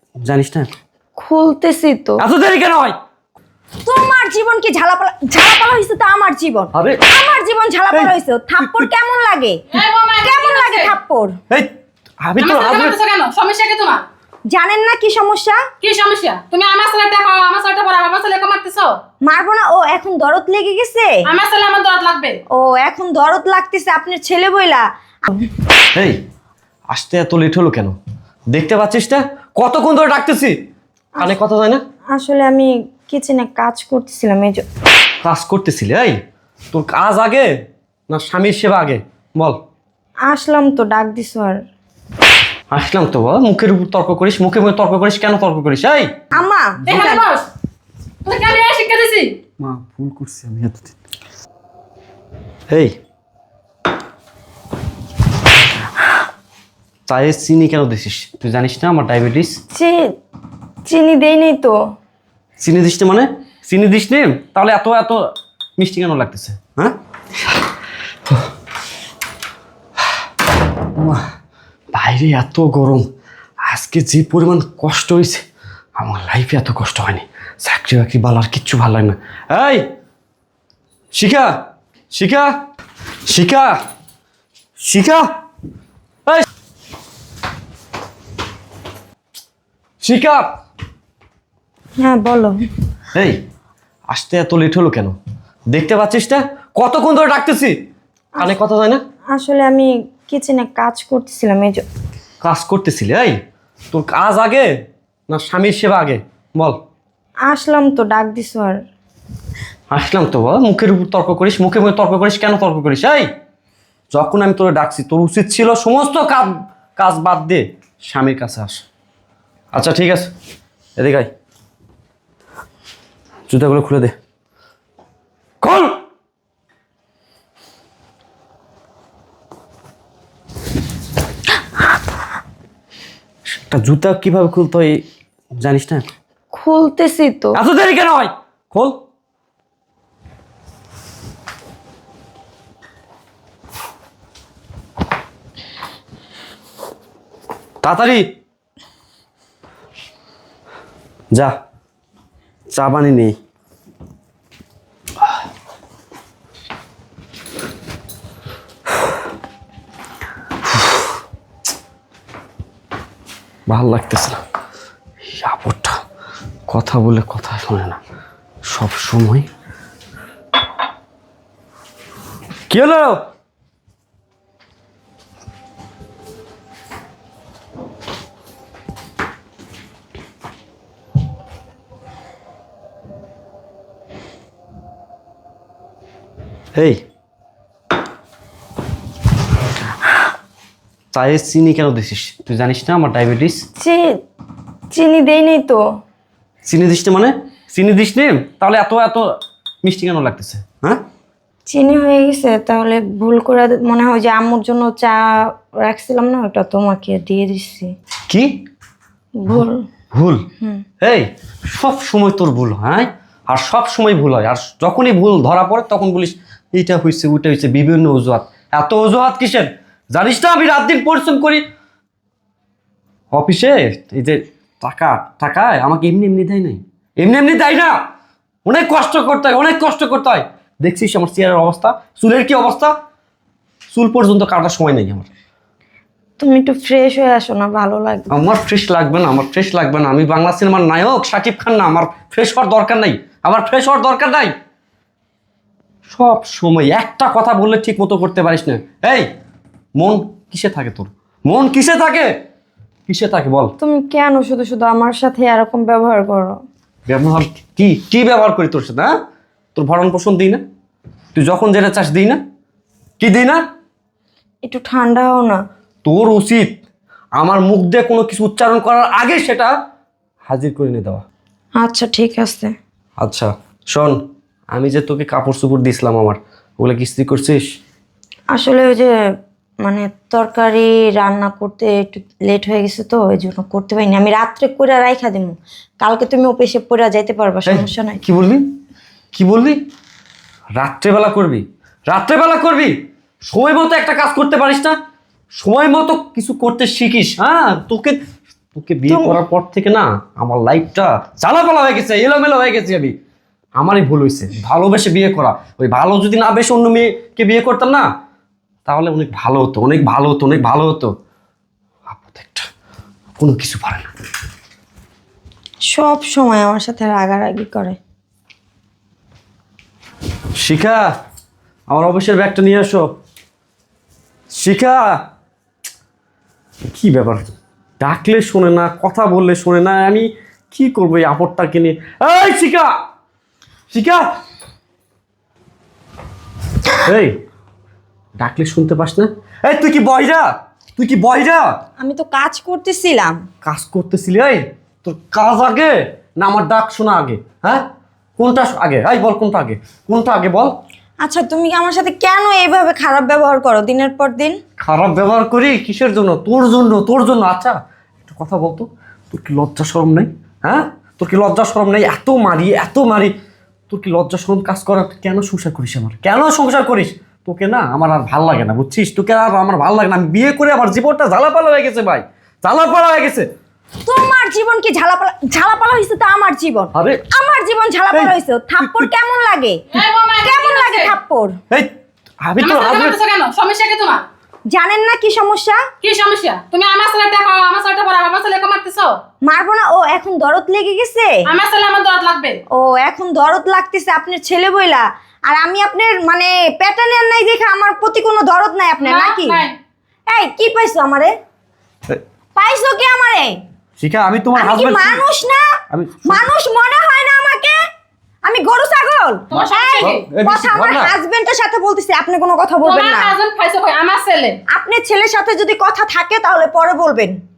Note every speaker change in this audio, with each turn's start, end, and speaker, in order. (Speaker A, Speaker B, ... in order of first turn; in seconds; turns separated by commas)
Speaker A: 0.2-0.7, Speaker B: 1.2-2.2, Speaker A: 2.2-3.0, Speaker B: 3.9-9.6, Speaker A: 6.7-7.1, Speaker A: 7.9-8.9, Speaker C: 9.7-10.9, Speaker B: 10.2-11.4, Speaker A: 12.2-13.0, Speaker C: 12.4-14.0, Speaker B: 14.5-15.6, Speaker C: 15.8-19.0, Speaker B: 19.2-21.2, Speaker C: 21.2-22.4, Speaker B: 22.5-25.5, Speaker A: 26.9-28.0, Speaker A: 28.5-30.6, Speaker A: 31.2-31.8, Speaker B: 32.1-34.6, Speaker A: 35.2-36.2, Speaker A: 36.7-37.5, Speaker A: 38.1-39.6, Speaker B: 40.3-41.6, Speaker A: 42.7-47.0, Speaker B: 46.3-47.2, Speaker C: 46.9-47.5, Speaker C: 48.2-49.3, Speaker A: 49.6-51.0, Speaker A: 52.7-53.0, Speaker A: 57.1-59.6, Speaker B: 59.8-60.0, Speaker B: 60.9-61.8, Speaker A: 62.6-65.3, Speaker A: 65.8-67.0, Speaker A: 71.0-71.2, Speaker A: 71.9-73.1, Speaker A: 73.6-75.4, Speaker A: 76.0-79.8, Speaker A: 81.2-81.5, Speaker A: 82.1-82.5, Speaker A: 83.3-83.8, Speaker A: 84.8-85.3, Speaker A: 90.0-90.5, Speaker B: 92.0-92.6, Speaker A: 94.1-95.2, Speaker A: 95.7-97.8, Speaker A: 98.4-99.0, Speaker B: 99.3-101.8, Speaker A: 102.4-103.4, Speaker A: 103.9-104.7, Speaker A: 105.3-106.8, Speaker B: 107.5-108.8, Speaker A: 109.9-113.3, Speaker A: 114.1-118.8, Speaker A: 119.7-120.3, Speaker A: 121.0-121.3, Speaker A: 123.5-124.2, Speaker A: 125.6-126.0, Speaker A: 133.7-135.0, Speaker A: 135.6-136.1, Speaker B: 136.5-137.6, Speaker A: 137.5-139.0, Speaker A: 147.8-148.3, Speaker A: 152.7-153.4, Speaker A: 163.7-164.4, Speaker A: 165.3-166.0, Speaker A: 166.7-168.0, Speaker A: 168.7-169.5, Speaker A: 172.7-173.2, Speaker A: 186.8-187.0, Speaker A: 191.1-193.7, Speaker B: 193.8-194.1, Speaker B: 194.9-195.8, Speaker A: 196.7-199.3, Speaker A: 199.8-201.0, Speaker B: 201.7-207.9, Speaker B: 209.4-209.9, Speaker A: 209.5-210.4, Speaker A: 211.0-221.6, Speaker A: 223.3-228.0, Speaker A: 228.7-232.9, Speaker A: 233.9-235.3, Speaker B: 236.4-238.3, Speaker A: 238.3-244.5, Speaker A: 246.1-249.3, Speaker A: 250.0-252.3, Speaker A: 253.1-253.8, Speaker B: 253.8-256.6, Speaker A: 257.1-259.2, Speaker A: 259.8-260.6, Speaker A: 261.3-262.4, Speaker A: 263.2-263.6, Speaker B: 264.6-265.6, Speaker A: 266.1-266.8, Speaker A: 267.4-269.7, Speaker A: 270.5-271.2, Speaker B: 271.8-272.7, Speaker A: 273.2-274.2, Speaker A: 274.7-277.6, Speaker B: 278.5-279.1, Speaker B: 279.8-288.2, Speaker A: 287.7-288.7, Speaker A: 289.3-289.8, Speaker A: 290.8-295.0, Speaker A: 295.6-298.2, Speaker A: 298.8-303.1, Speaker B: 299.1-299.4, Speaker A: 303.8-308.1, Speaker A: 308.9-311.1, Speaker A: 312.1-312.7, Speaker A: 313.4-314.1, Speaker B: 315.9-318.0, Speaker A: 320.6-321.1, Speaker A: 321.9-323.1, Speaker A: 324.5-325.2, Speaker A: 326.9-333.0, Speaker A: 333.9-334.3, Speaker A: 337.0-337.4, Speaker A: 338.4-341.8, Speaker B: 342.0-343.4, Speaker A: 343.6-347.9, Speaker A: 348.4-350.7, Speaker B: 351.2-354.6, Speaker A: 354.8-363.3, Speaker A: 363.9-373.5, Speaker B: 374.1-379.8, Speaker A: 376.9-377.2, Speaker A: 378.1-379.1, Speaker C: 379.9-381.1, Speaker B: 380.4-381.6, Speaker A: 382.4-383.2, Speaker C: 382.6-384.2, Speaker B: 384.7-385.8, Speaker C: 386.0-389.2, Speaker B: 389.4-391.4, Speaker C: 391.5-392.6, Speaker B: 392.7-399.6, Speaker C: 399.0-399.8, Speaker B: 400.3-401.4, Speaker B: 402.6-403.6, Speaker A: 404.0-405.2, Speaker B: 404.6-405.7, Speaker A: 405.9-406.4, Speaker B: 406.3-407.8, Speaker B: 408.4-413.3, Speaker C: 409.5-410.3, Speaker A: 409.5-411.1, Speaker C: 412.8-414.6, Speaker B: 414.7-417.4